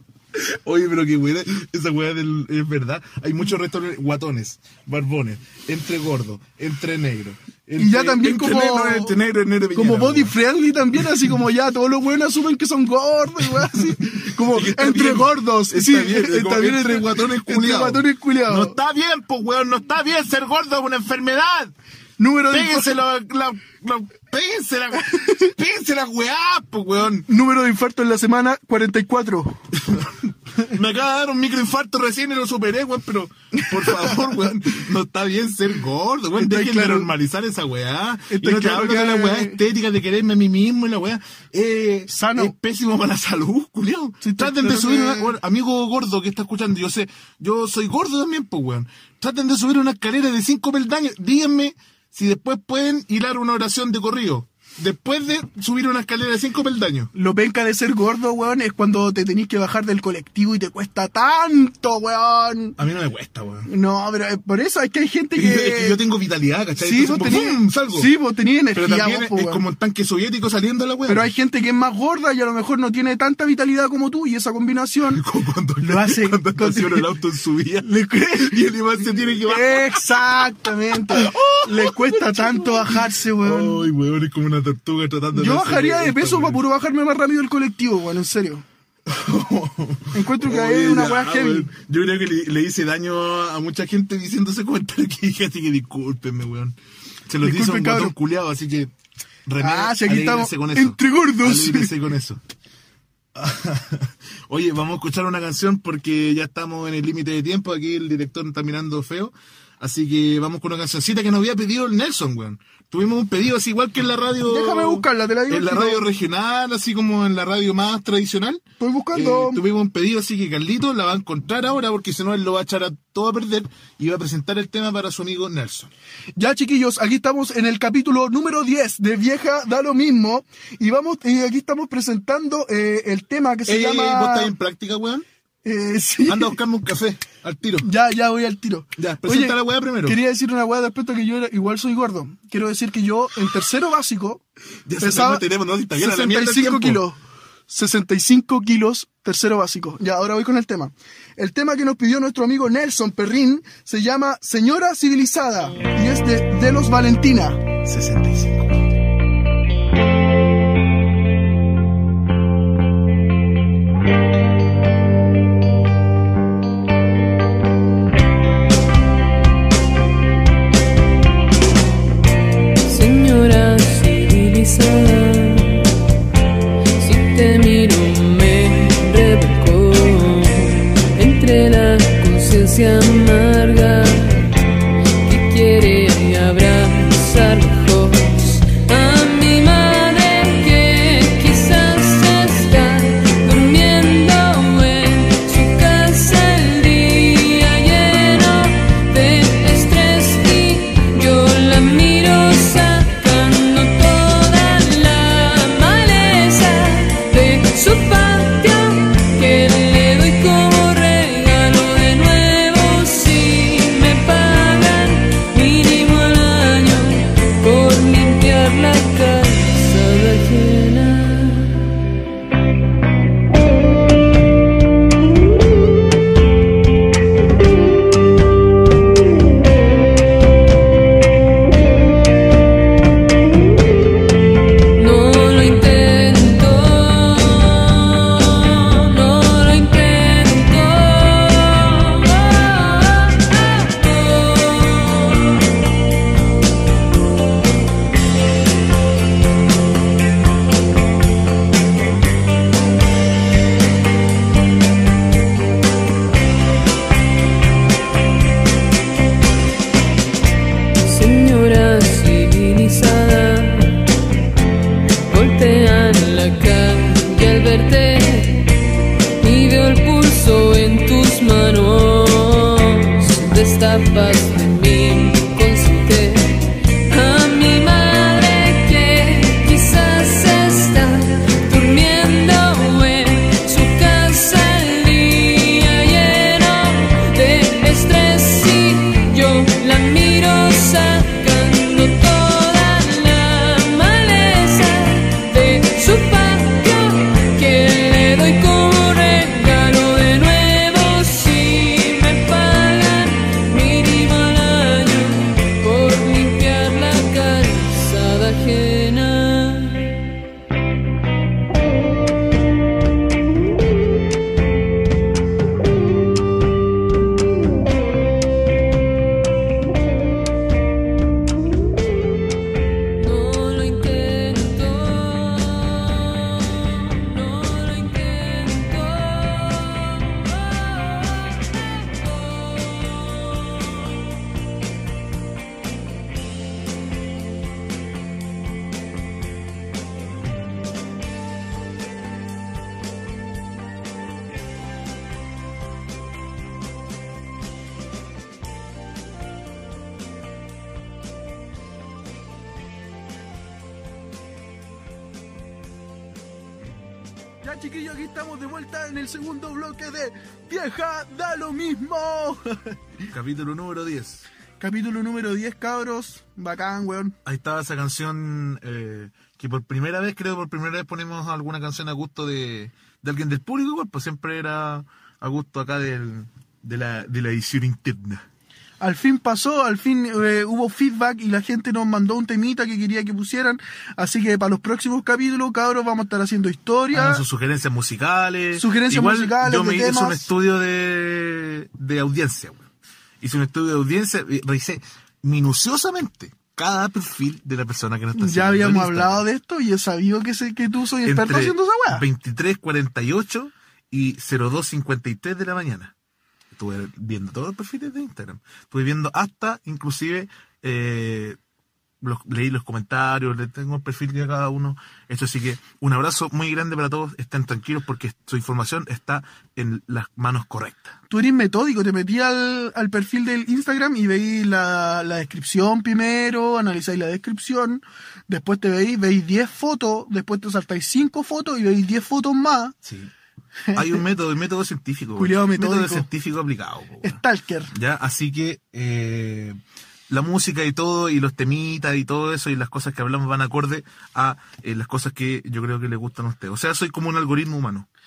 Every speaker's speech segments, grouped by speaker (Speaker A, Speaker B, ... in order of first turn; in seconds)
Speaker A: 0.3-10.3, 13.4-21.7, 22.5-27.3, 29.7-57.1, 62.8-63.7, 65.3-68.1, 68.7-71.3, 75.1-80.0, 81.1-86.6, 89.1-96.8, 97.3-98.9, 99.5-102.4, 103.3-125.9, 133.7-135.2, 136.3-137.9, 139.0-140.2, 144.8-147.0, 157.8-158.8, 363.3-364.4, 367.4-378.4, 387.1-392.9, 393.4-399.4, 401.2-406.1, 406.7-411.6, 412.2-421.1, 433.0-433.3, 433.9-437.4, 437.9-439.8, 440.3-448.1
Speaker B: 7.8-9.2, 9.7-18.8, 22.2-22.9, 25.1-25.5, 27.3-29.6, 33.6-34.3, 36.4-37.1, 38.3-39.6, 42.1-42.5, 44.2-45.3, 57.1-62.8, 63.6-66.0, 66.8-69.6, 71.0-75.2, 75.8-77.1, 77.8-78.6, 79.4-83.9, 85.3-88.6, 90.1-91.7, 97.4-98.1, 99.6-101.9, 114.5-116.1, 118.8-119.6, 126.4-134.5, 135.6-136.6, 137.8-144.4, 145.0-157.6, 357.6-363.0, 364.8-367.4, 379.0-387.4, 388.7-390.5, 398.3-402.2, 421.3-432.9, 433.9-434.2, 435.4-436.3, 437.2-437.9
Speaker C: 172.8-175.9, 177.0-184.6, 185.2-221.9, 234.9-245.7, 261.0-264.1, 265.3-268.7, 269.4-310.2, 323.2-334.0